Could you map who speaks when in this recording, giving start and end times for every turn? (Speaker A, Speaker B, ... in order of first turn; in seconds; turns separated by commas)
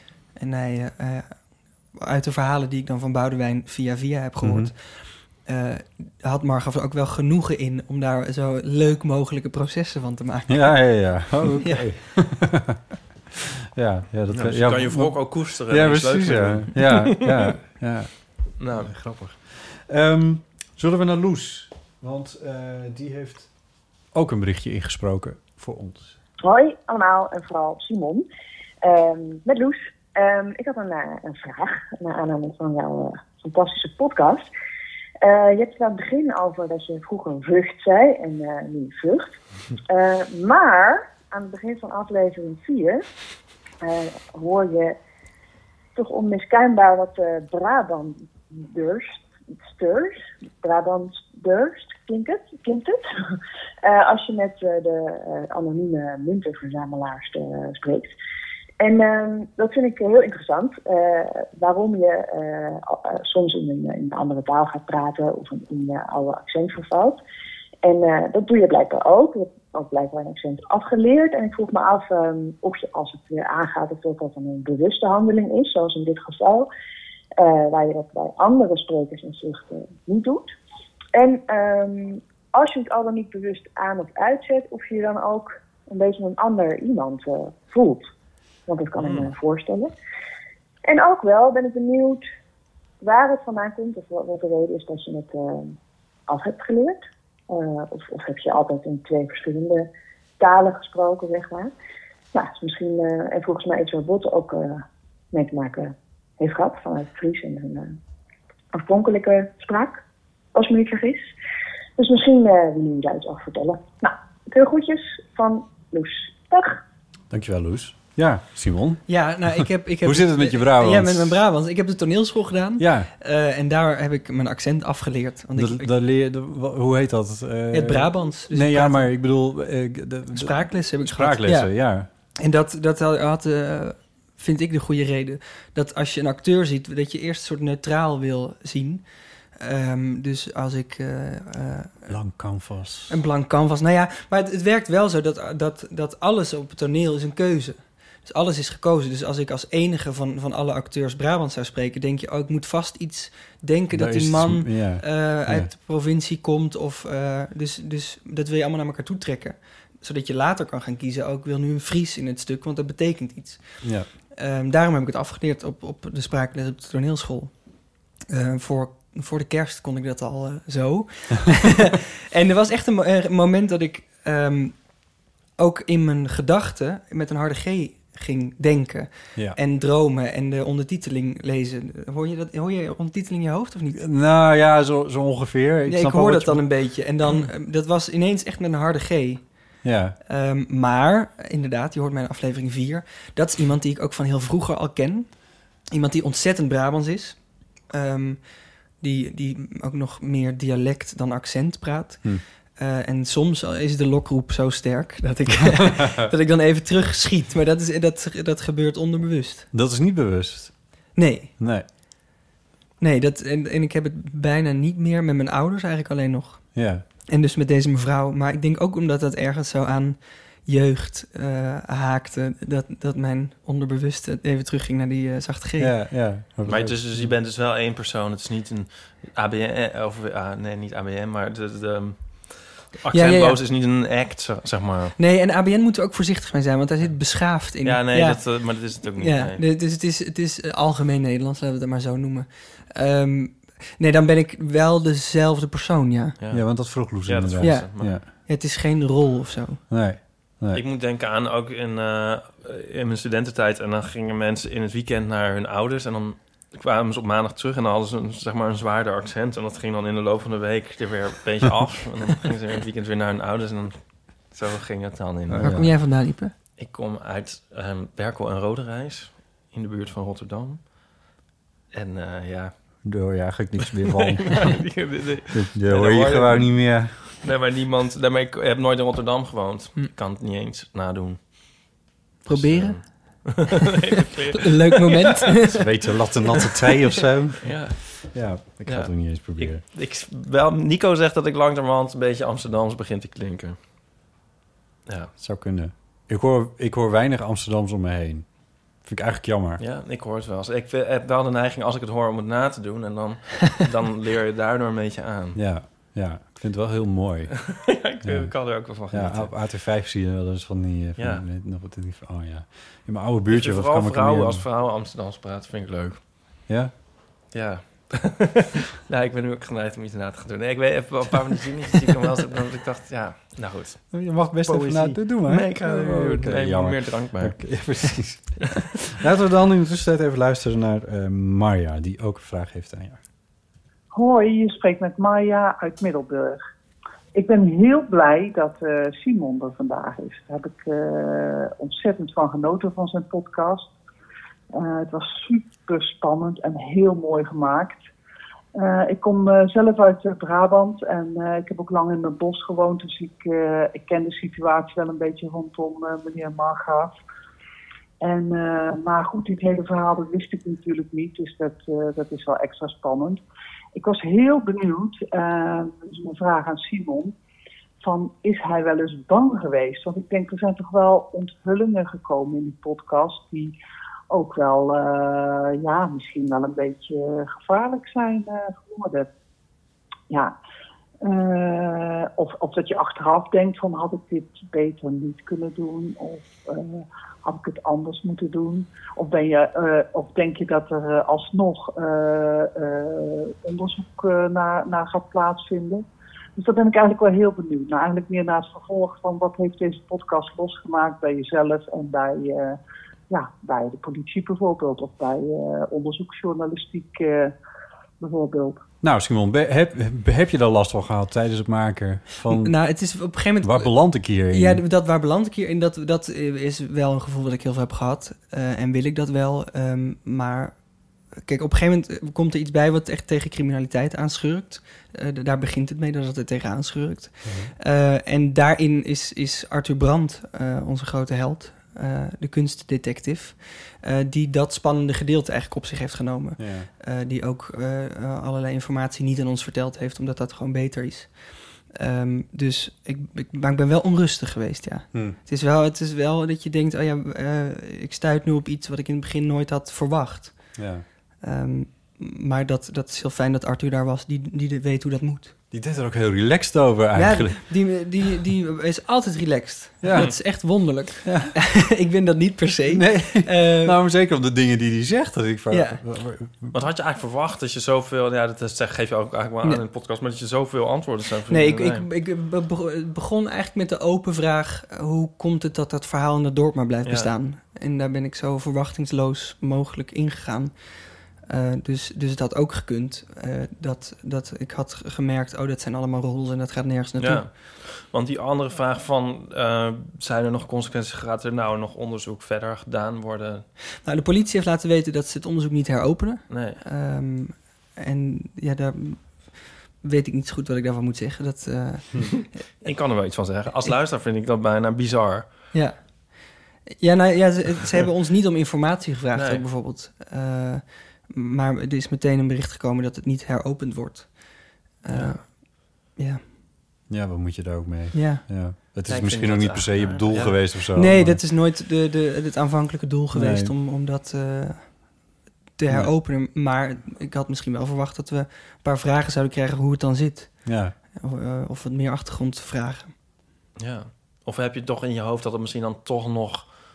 Speaker A: 0.3-1.4, Speaker A: 1.9-10.8, Speaker B: 4.4-4.7, Speaker B: 10.5-12.8, Speaker B: 13.7-23.5, Speaker C: 14.3-17.5, Speaker C: 18.6-18.9, Speaker B: 24.1-26.2, Speaker D: 26.4-28.3, Speaker D: 28.8-34.5, Speaker D: 35.2-43.0, Speaker D: 43.8-45.0, Speaker D: 45.9-53.0, Speaker D: 53.8-58.1, Speaker D: 58.8-67.2, Speaker D: 67.8-76.7, Speaker D: 77.4-80.5, Speaker D: 81.1-88.1, Speaker D: 88.7-89.9, Speaker C: 89.0-89.3, Speaker D: 90.8-92.2, Speaker D: 93.0-99.9, Speaker D: 100.4-101.7, Speaker D: 102.3-108.0, Speaker D: 108.7-110.0, Speaker D: 110.5-111.3, Speaker D: 112.0-116.8, Speaker B: 117.3-121.4, Speaker A: 119.1-125.9, Speaker B: 122.8-123.1, Speaker B: 125.5-132.1, Speaker A: 127.7-129.1, Speaker A: 130.3-131.7, Speaker A: 132.4-139.0, Speaker A: 139.6-142.1, Speaker B: 142.1-143.2, Speaker A: 143.1-163.8, Speaker B: 153.9-155.7, Speaker B: 163.8-164.1, Speaker A: 164.3-167.6, Speaker A: 168.3-174.8, Speaker A: 175.6-184.0, Speaker B: 183.9-186.7, Speaker A: 185.9-189.4, Speaker B: 189.8-190.2, Speaker A: 190.3-195.3, Speaker A: 195.9-198.4, Speaker A: 199.0-209.7, Speaker B: 205.6-206.2, Speaker B: 209.7-210.8, Speaker A: 211.1-211.5, Speaker B: 211.6-211.8, Speaker A: 213.0-216.7, Speaker B: 216.7-217.0, Speaker A: 217.3-225.9, Speaker B: 225.8-227.3, Speaker C: 226.7-235.1, Speaker A: 233.1-233.6, Speaker A: 235.2-246.3, Speaker C: 237.0-239.6, Speaker C: 246.4-248.1, Speaker B: 246.5-248.2, Speaker A: 247.6-249.8, Speaker B: 249.9-250.8, Speaker C: 250.7-265.9, Speaker B: 265.5-265.9, Speaker A: 265.6-266.5, Speaker C: 266.8-270.9, Speaker C: 271.9-272.7, Speaker B: 273.0-274.7, Speaker C: 273.8-281.9, Speaker B: 275.5-277.1, Speaker A: 282.4-283.7, Speaker C: 282.5-285.6, Speaker A: 284.7-285.7, Speaker B: 285.7-289.8, Speaker C: 287.6-293.8, Speaker B: 295.4-298.5, Speaker B: 299.0-299.8, Speaker C: 299.8-305.6, Speaker B: 305.5-307.7, Speaker C: 307.7-309.5, Speaker B: 308.2-314.6, Speaker C: 311.2-311.4, Speaker C: 313.5-316.2, Speaker B: 316.7-316.9, Speaker C: 317.5-328.2, Speaker B: 324.1-333.2, Speaker E: 334.1-336.6, Speaker E: 337.3-343.9, Speaker E: 344.7-348.1, Speaker E: 348.7-357.1, Speaker E: 358.2-363.4, Speaker E: 363.9-367.3, Speaker E: 368.0-373.7, Speaker E: 374.3-379.3, Speaker E: 381.2-396.0, Speaker E: 396.6-402.8, Speaker E: 403.3-407.5, Speaker E: 408.2-408.8, Speaker B: 409.0-412.8, Speaker A: 412.5-420.8, Speaker B: 413.6-414.8, Speaker A: 421.4-441.3, Speaker B: 427.4-427.7, Speaker B: 436.6-436.9, Speaker A: 441.9-450.7, Speaker B: 445.1-445.4, Speaker B: 450.8-451.0, Speaker A: 451.4-455.5, Speaker B: 455.7-457.6, Speaker A: 457.1-464.0, Speaker B: 460.0-460.4, Speaker B: 461.2-461.5, Speaker B: 462.9-466.7, Speaker A: 465.7-466.0, Speaker C: 466.7-472.1, Speaker A: 471.5-480.7, Speaker A: 481.4-487.4, Speaker C: 487.2-493.6, Speaker A: 494.0-502.6, Speaker C: 496.5-496.8, Speaker C: 502.8-505.5, Speaker A: 505.7-516.4, Speaker C: 509.3-509.6, Speaker B: 517.1-521.4, Speaker A: 518.1-518.4, Speaker C: 519.1-520.6, Speaker A: 520.9-525.1, Speaker B: 523.3-523.7, Speaker A: 525.8-533.1, Speaker B: 530.6-530.9, Speaker C: 533.8-536.7